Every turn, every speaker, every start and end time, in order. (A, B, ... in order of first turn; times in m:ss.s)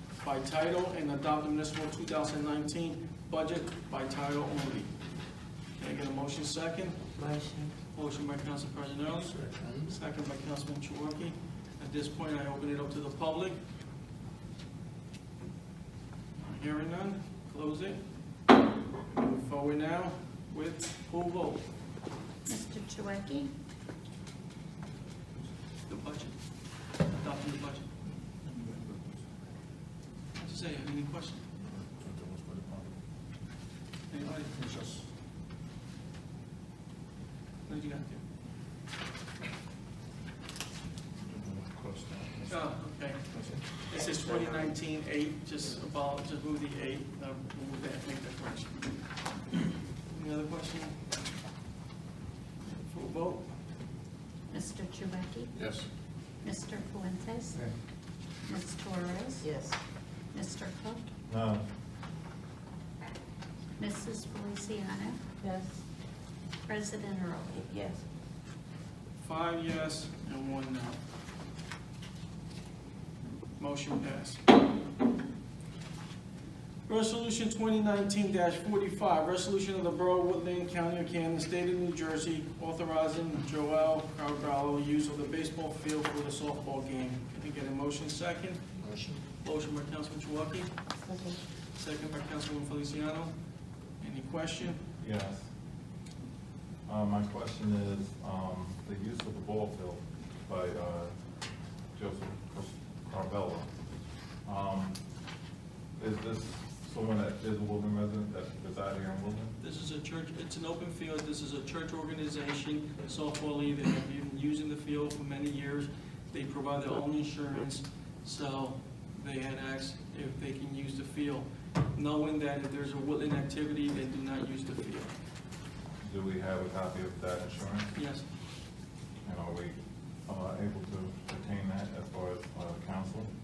0:00.2-0:04.9 A
0:05.7-0:07.1 A
0:07.2-0:07.7 B
0:07.9-0:13.6 A
0:09.3-0:09.9 C
0:16.4-0:18.0 A
0:19.1-0:21.6 A
0:22.4-0:23.5 D
0:25.9-0:26.3 A
0:27.1-0:27.9 A
0:28.4-0:29.2 C
0:30.4-0:31.4 A
0:31.6-0:32.9 C
0:34.1-0:34.5 A
0:34.4-0:35.1 C
0:37.6-0:38.2 A
0:41.2-0:42.6 C
0:42.5-0:48.8 A
0:43.3-0:43.6 C
0:50.1-0:50.9 A
0:52.7-0:53.5 A
0:54.5-0:55.6 D
0:55.5-0:55.9 C
0:56.4-0:57.7 D
0:58.5-0:59.5 D
0:59.4-0:59.8 B
1:00.3-1:01.1 D
1:01.3-1:01.6 E
1:03.8-1:05.2 D
1:05.4-1:05.7 B
1:06.6-1:07.7 D
1:07.7-1:08.0 B
1:09.2-1:11.0 A
1:13.6-1:14.4 A
1:16.9-1:28.6 A
1:28.8-1:29.2 C
1:29.4-1:30.7 A
1:31.1-1:31.3 B
1:31.7-1:33.3 A
1:34.0-1:34.8 A
1:35.0-1:35.5 E
1:36.8-1:41.1 E
1:41.9-1:43.7 E
1:44.4-1:45.0 E
1:46.0-1:49.5 E
1:49.6-2:05.1 A
2:06.0-2:07.9 E
2:07.9-2:08.2 A
2:09.2-2:13.3 E